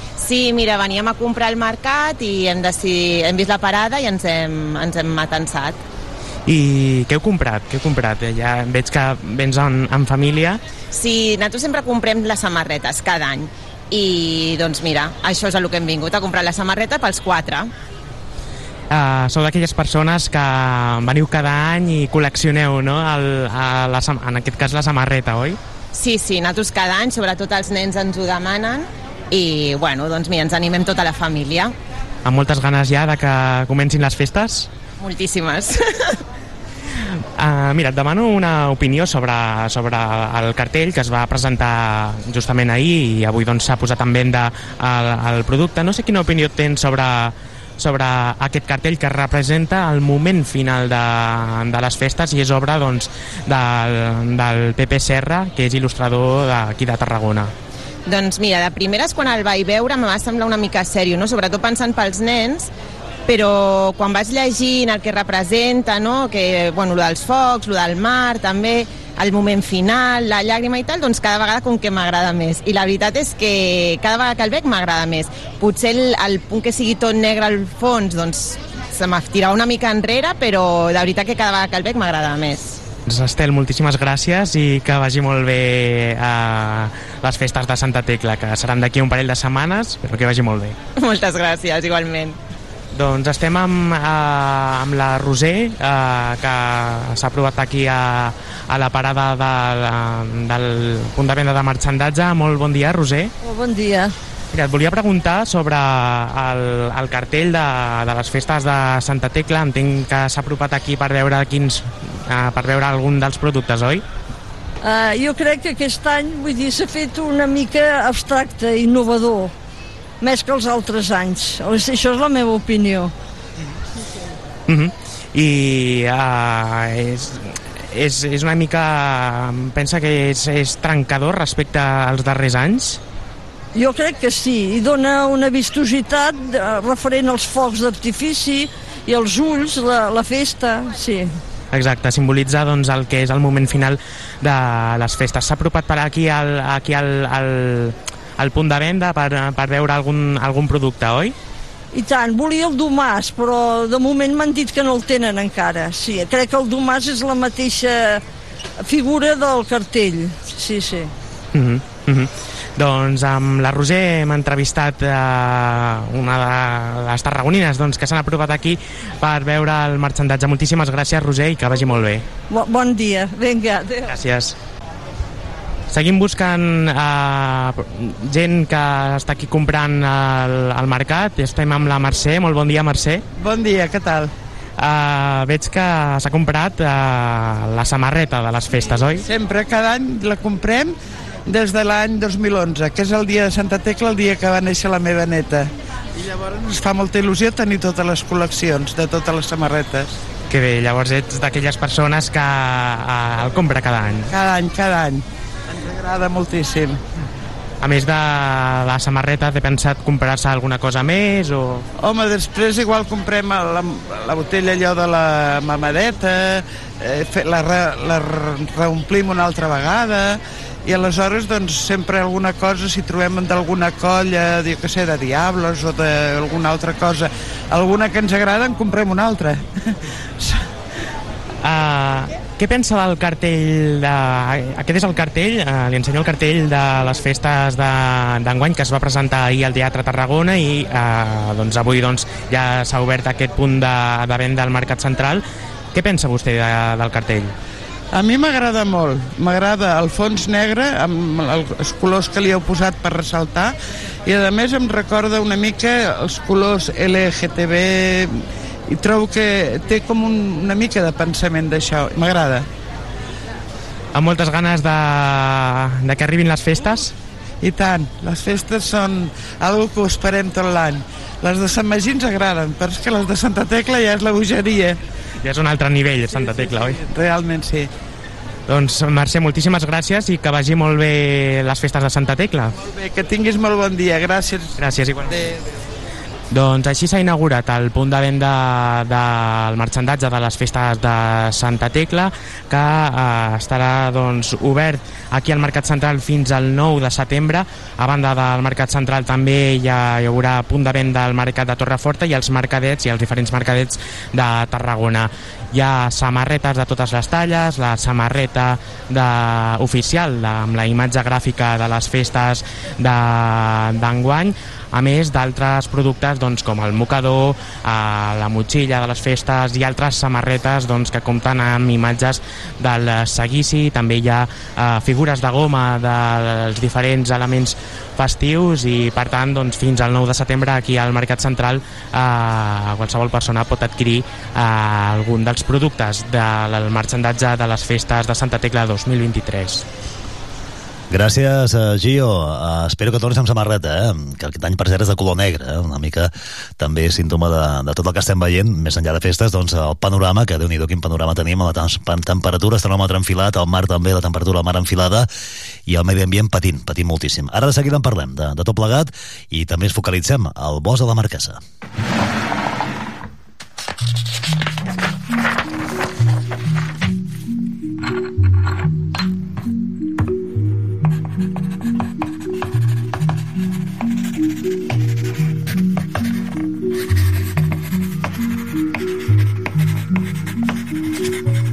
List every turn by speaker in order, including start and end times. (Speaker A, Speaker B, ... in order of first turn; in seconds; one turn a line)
Speaker A: 0.2-5.8
Speaker B: 6.5-10.6
Speaker A: 10.9-17.7
Speaker B: 18.9-25.6
Speaker A: 25.9-31.7
Speaker B: 32.2-34.7
Speaker A: 35.0-36.2
Speaker B: 37.4-57.5
Speaker A: 58.1-62.7
Speaker A: 63.3-82.8
Speaker B: 83.1-90.8
Speaker A: 91.0-92.4
Speaker B: 92.9-103.3
Speaker C: 103.4-104.1
Speaker B: 104.5-114.0
Speaker C: 114.8-119.5
Speaker C: 120.2-123.1
Speaker B: 124.7-133.0
Speaker C: 133.7-141.3
Speaker B: 141.7-151.3
Speaker C: 151.9-158.2
Speaker C: 158.8-161.1
Speaker B: 161.5-172.2
Speaker C: 172.5-174.1
Speaker B: 174.1-174.6
Speaker B: 175.9-183.2
Speaker D: 183.4-184.3
Speaker B: 184.8-189.2
Speaker D: 189.2-200.2
Speaker B: 200.5-204.3
Speaker D: 204.3-207.0
Speaker B: 207.8-211.9
Speaker D: 212.0-230.6
Speaker B: 231.6-245.4
Speaker B: 245.9-247.5
Speaker D: 248.1-262.7
Speaker B: 264.1-267.1
Speaker D: 267.6-275.0
Speaker B: 275.4-277.0
Speaker D: 277.0-277.9
Speaker B: 278.7-282.7
Speaker D: 282.8-284.7
Speaker B: 284.8-285.3
Speaker B: 286.5-339.9
Speaker E: 341.1-355.3
Speaker E: 355.9-361.6